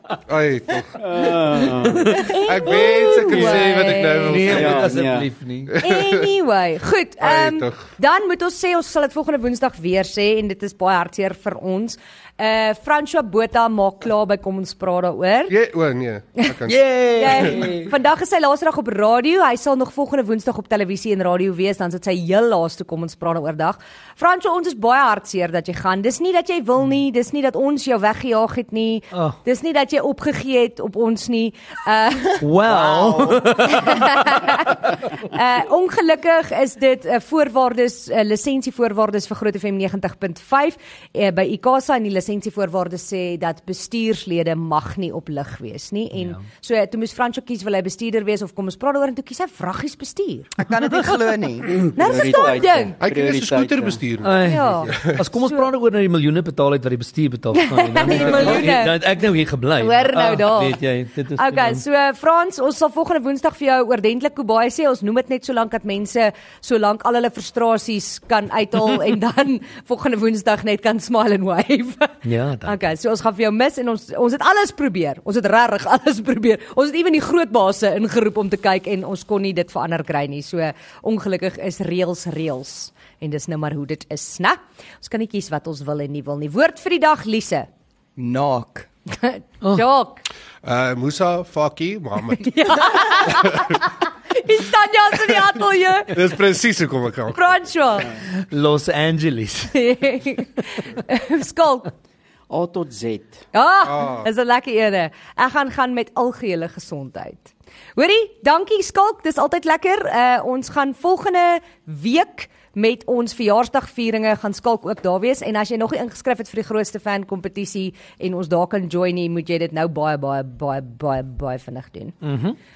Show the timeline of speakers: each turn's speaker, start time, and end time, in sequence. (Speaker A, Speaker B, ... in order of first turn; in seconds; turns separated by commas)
Speaker A: 0.3-1.2, Speaker B: 0.9-2.3, Speaker C: 1.8-2.4, Speaker D: 2.2-4.4, Speaker A: 2.3-4.9, Speaker B: 3.0-3.6, Speaker C: 3.9-5.7, Speaker B: 4.4-5.3, Speaker A: 5.7-6.3, Speaker D: 5.8-15.5, Speaker A: 7.2-7.8, Speaker A: 15.5-16.8, Speaker C: 16.7-17.9, Speaker D: 17.1-32.4, Speaker C: 29.1-29.4, Speaker C: 32.4-34.3, Speaker E: 32.6-33.8, Speaker D: 33.8-50.5, Speaker C: 46.1-46.4, Speaker E: 50.5-51.8, Speaker B: 51.6-54.0, Speaker D: 52.0-52.9, Speaker A: 53.0-55.2, Speaker C: 54.2-61.8, Speaker D: 54.5-55.0, Speaker D: 57.6-59.0, Speaker B: 58.1-58.5, Speaker D: 59.8-60.8, Speaker D: 61.3-87.7, Speaker C: 72.2-72.9, Speaker E: 88.2-88.9, Speaker D: 89.1-90.2, Speaker A: 90.6-93.8, Speaker D: 92.4-96.2, Speaker A: 96.1-97.5, Speaker D: 97.3-98.2, Speaker C: 98.3-99.8, Speaker D: 99.7-101.9, Speaker B: 102.5-103.4, Speaker D: 103.5-122.2, Speaker A: 103.8-104.3, Speaker C: 122.2-122.6